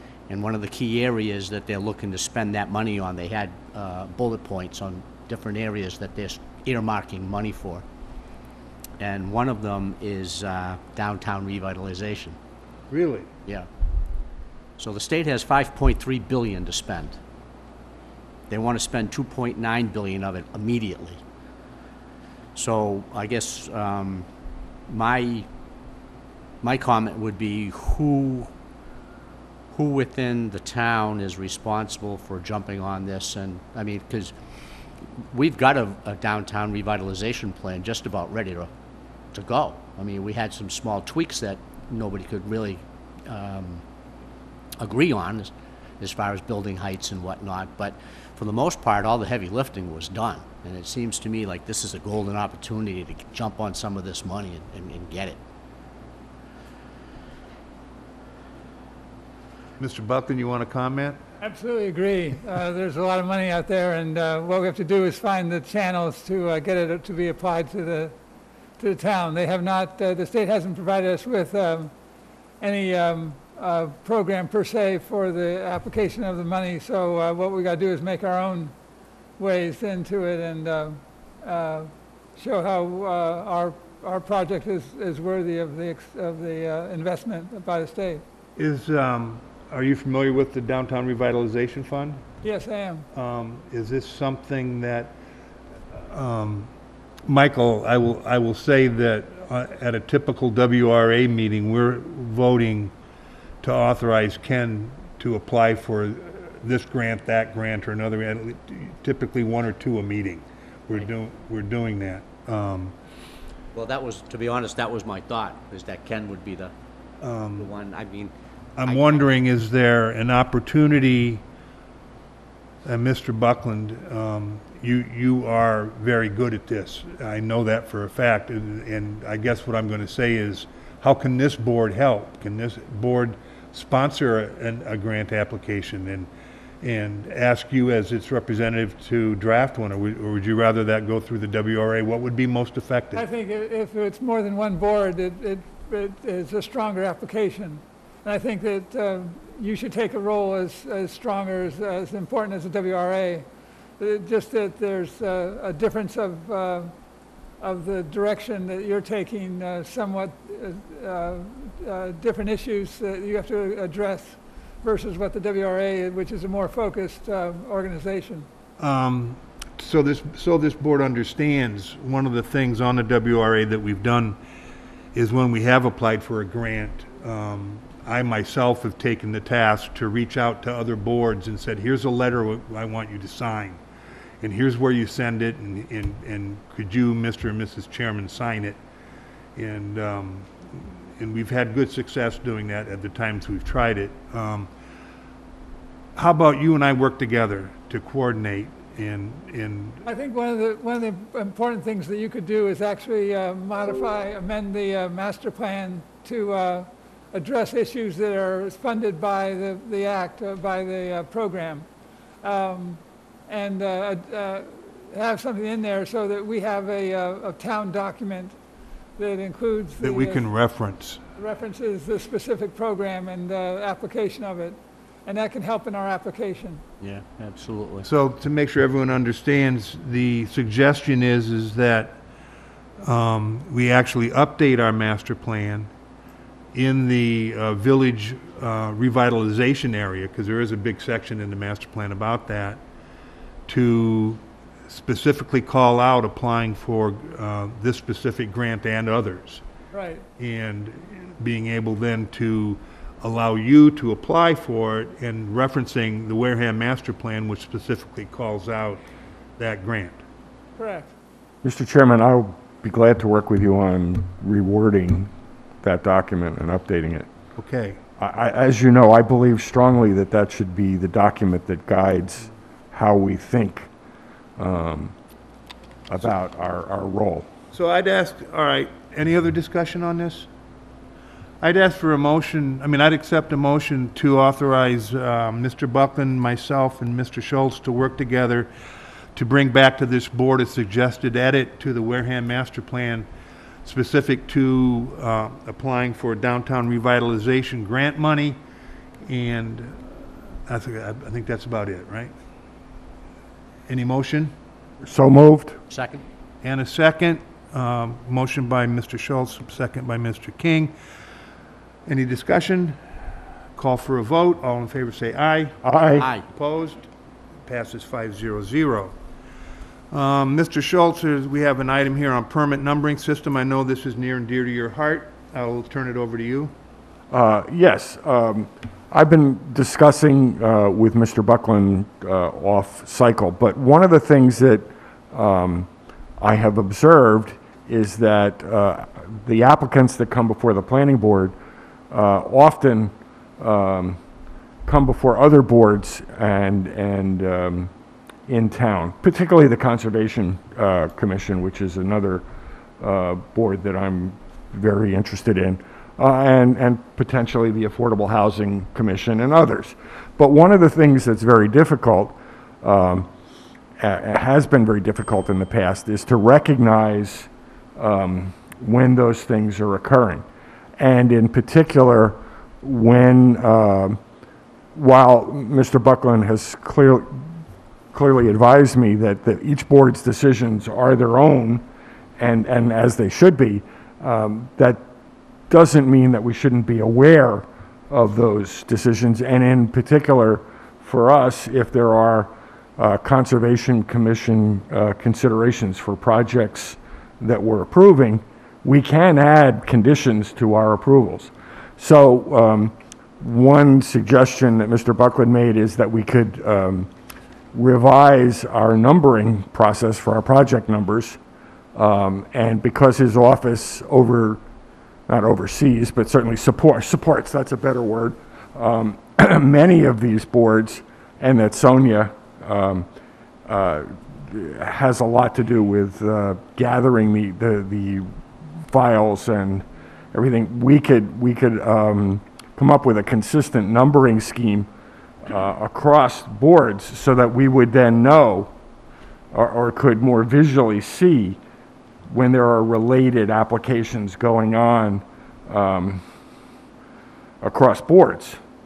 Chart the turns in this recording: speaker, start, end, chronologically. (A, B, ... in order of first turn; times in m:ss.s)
0:00.3-0:07.8 A
0:09.0-0:12.4 A
0:12.9-0:13.3 B
0:14.8-0:17.2 A
0:18.5-0:21.2 A
0:22.6-0:24.3 A
0:24.9-0:25.5 A
0:26.6-0:28.5 A
0:29.7-0:34.3 A
0:35.3-0:38.7 A
0:39.3-0:43.8 A
0:44.8-0:55.4 A
0:59.8-1:01.2 B
1:01.4-1:08.2 C
1:08.8-1:11.9 C
1:12.6-1:18.7 C
1:19.4-1:28.2 C
1:28.6-1:32.2 B
1:32.4-1:33.1 C
1:33.1-1:35.1 B
1:36.0-1:36.7 B
1:37.3-1:42.9 B
1:43.6-1:53.0 B
1:53.7-1:56.7 A
1:57.2-1:57.7 B
1:57.6-1:58.3 A
1:58.8-2:01.4 B
1:58.8-1:59.3 A
2:02.8-2:16.3 B
2:16.8-2:23.2 B
2:23.1-2:33.5 C
2:34.0-2:37.0 C
2:37.6-2:48.5 C
2:48.8-2:54.4 B
2:55.1-3:03.8 B
3:04.4-3:08.8 B
3:09.6-3:14.7 B
3:16.2-3:20.0 B
3:20.0-3:31.9 C
3:32.4-3:38.6 C
3:39.2-3:40.5 C
3:40.0-3:41.2 B
3:41.4-3:46.8 C
3:47.0-3:48.1 A
3:48.0-3:52.2 B
3:53.0-3:55.9 B
3:56.7-4:02.8 B
4:03.7-4:09.6 B
4:09.9-4:10.3 C
4:10.4-4:19.0 B
4:19.6-4:20.2 B
4:20.8-4:21.1 C
4:21.6-4:27.3 D
4:27.6-4:28.0 B
4:28.2-4:33.9 D
4:34.6-4:35.1 D
4:36.1-4:37.5 D
4:37.7-4:40.5 B
4:41.6-4:48.7 B
4:49.4-4:53.3 B
4:53.8-4:58.6 B
4:59.2-5:02.3 B
5:03.9-5:04.5 B
5:05.0-5:05.8 D
5:05.9-5:06.2 A
5:06.6-5:11.0 B
5:12.1-5:13.0 B
5:13.8-5:15.8 B
5:15.8-5:16.3 D
5:16.2-5:16.5 A
5:16.5-5:17.1 B
5:17.6-5:19.1 B
5:20.1-5:26.7 B
5:27.3-5:41.6 D
5:42.1-5:44.2 D
5:44.8-5:47.9 D
5:48.5-5:52.4 D
5:53.0-6:03.3 D
6:04.0-6:10.4 D
6:11.0-6:14.2 D
6:14.9-6:17.5 D
6:18.1-6:21.9 D
6:22.4-6:25.0 D
6:25.7-6:47.1 D
6:47.7-6:51.4 D
6:52.0-6:54.6 D
6:55.3-7:03.1 D
7:03.7-7:08.4 D
7:08.9-7:14.9 D
7:15.4-7:18.7 D
7:19.5-7:21.6 D
7:22.3-7:26.2 D
7:27.6-7:28.6 D